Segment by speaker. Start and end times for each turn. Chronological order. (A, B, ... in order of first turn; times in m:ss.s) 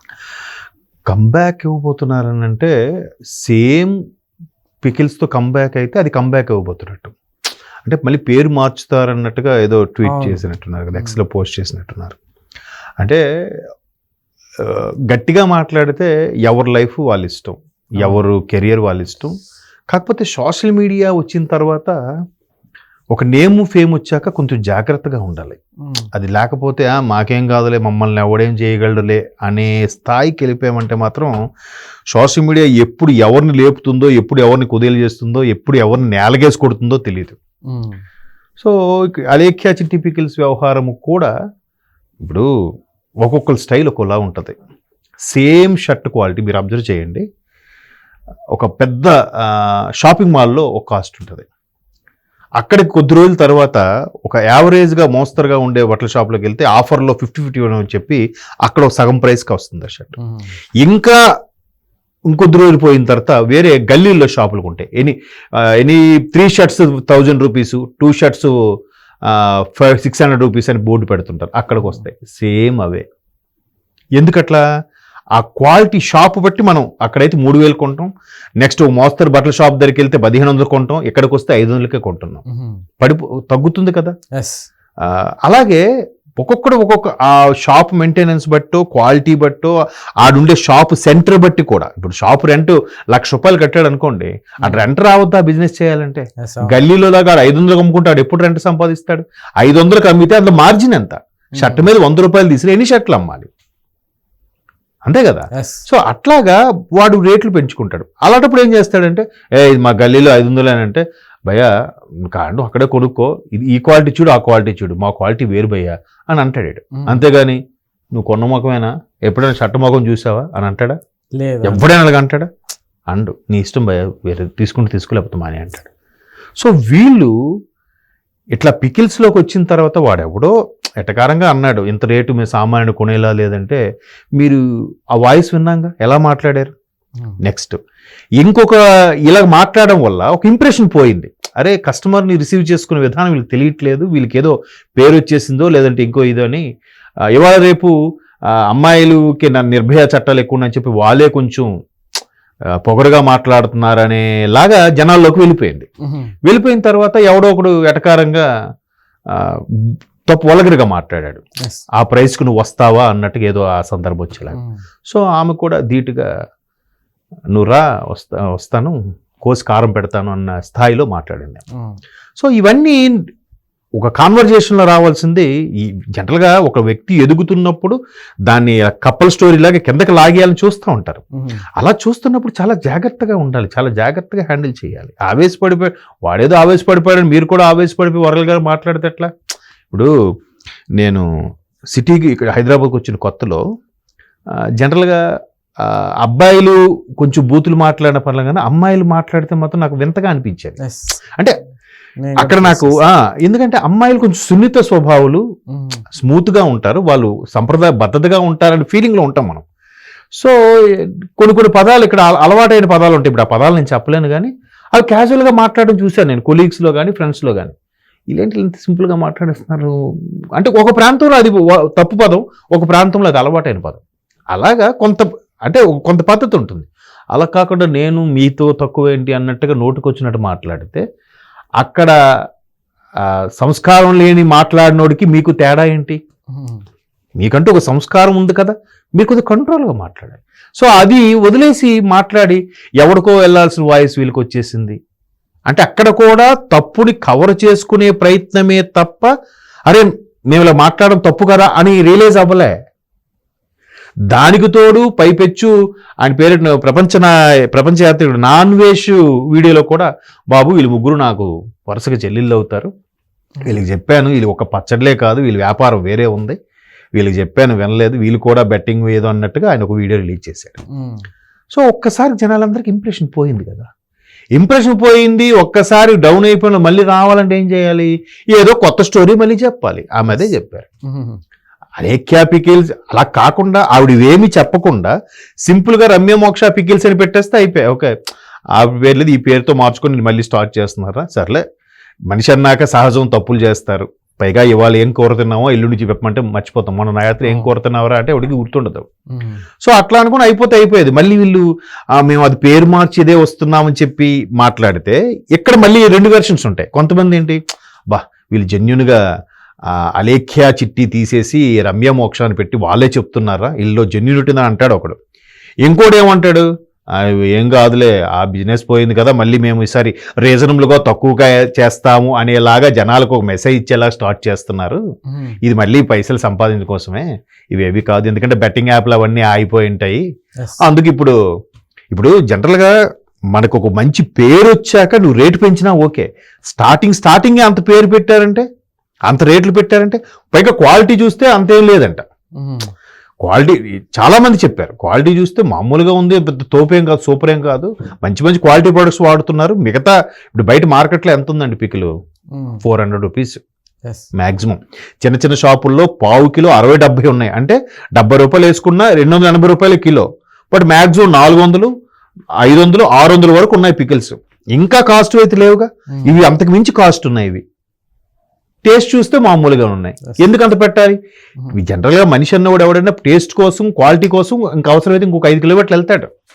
0:01.1-0:02.7 A
0:03.4-0:03.9 A
0:04.8-0:07.2 A
0:07.8-0:12.2 A
0:10.0-0:10.4 B
0:11.0-0:11.2 B
0:14.6-0:19.3 A
0:19.9-0:22.0 A
0:23.1-0:25.6 A
0:26.1-0:31.4 A
0:32.1-0:37.4 A
0:37.7-0:38.0 B
0:38.6-0:41.3 A
0:42.2-0:42.5 A
0:43.2-0:44.6 A
0:45.3-0:47.2 A
0:48.5-0:51.5 A
0:52.6-1:00.2 A
1:00.2-1:00.5 B
1:00.8-1:01.2 A
1:02.3-1:08.5 A
1:09.3-1:13.0 A
1:11.8-1:12.0 B
1:14.2-1:14.6 A
1:15.4-1:18.1 A
1:18.6-1:22.4 A
1:22.5-1:22.8 B
1:23.0-1:24.1 A
1:24.4-1:24.6 B
1:25.0-1:25.8 A
1:26.4-1:43.5 A
1:36.4-1:36.8 B
1:41.6-1:41.9 B
1:45.0-1:51.7 A
1:45.5-1:45.8 B
1:52.3-1:57.6 A
1:56.9-1:57.2 B
1:58.2-2:01.0 A
2:01.4-2:01.8 B
2:01.6-2:02.5 A
2:03.1-2:05.9 A
2:06.6-2:07.3 A
2:08.6-2:13.8 A
2:15.1-2:16.7 A
2:17.4-2:17.8 A
2:18.4-2:26.7 A
2:27.3-2:27.9 A
2:28.6-2:31.7 A
2:32.8-2:35.9 A
2:36.0-2:36.3 B
2:36.4-2:38.5 A
2:39.3-2:41.4 A
2:42.0-2:44.6 A
2:44.6-2:44.8 B
2:45.1-2:46.3 A
2:47.5-2:51.6 A
2:52.4-2:53.2 A
2:54.0-2:58.0 A
2:58.5-3:01.2 A
3:01.4-3:01.6 B
3:01.8-3:09.3 A
3:11.0-3:11.3 A
3:11.9-3:13.6 A
3:14.8-3:15.2 A
3:15.8-3:20.8 A
3:20.8-3:21.2 B
3:22.2-3:23.0 B
3:22.4-3:25.4 A
3:25.7-3:26.0 B
3:26.2-3:29.6 A
3:30.4-3:37.7 A
3:38.3-3:40.0 A
3:40.6-3:44.0 A
3:44.5-3:51.0 A
3:51.8-3:52.1 A
3:53.2-3:56.2 A
3:56.5-3:56.8 B
3:57.4-4:05.0 A
4:05.7-4:09.3 A
4:09.9-4:12.7 A
4:14.3-4:15.7 A
4:16.2-4:22.9 A
4:23.6-4:26.6 A
4:27.2-4:30.8 A
4:30.9-4:31.2 B
4:31.7-4:33.9 A
4:34.6-4:40.9 A
4:41.1-4:41.4 B
4:42.0-4:45.1 A
4:45.6-4:48.1 A
4:48.8-4:51.6 A
4:52.3-4:59.1 A
4:57.4-4:57.7 B
4:59.3-4:59.6 B
4:59.8-5:09.2 A
5:09.9-5:15.2 A
5:15.8-5:25.0 A
5:25.3-5:25.6 B
5:25.6-5:30.2 A
5:30.8-5:31.4 A
5:32.1-5:32.9 A
5:33.5-5:38.6 A
5:39.3-5:42.2 A
5:42.6-5:42.9 B
5:43.4-5:52.1 A
5:52.5-5:52.8 B
5:52.8-5:53.6 A
5:54.4-6:01.9 A
6:02.6-6:07.6 A
6:06.1-6:06.4 B
6:08.8-6:11.2 A
6:11.7-6:16.3 A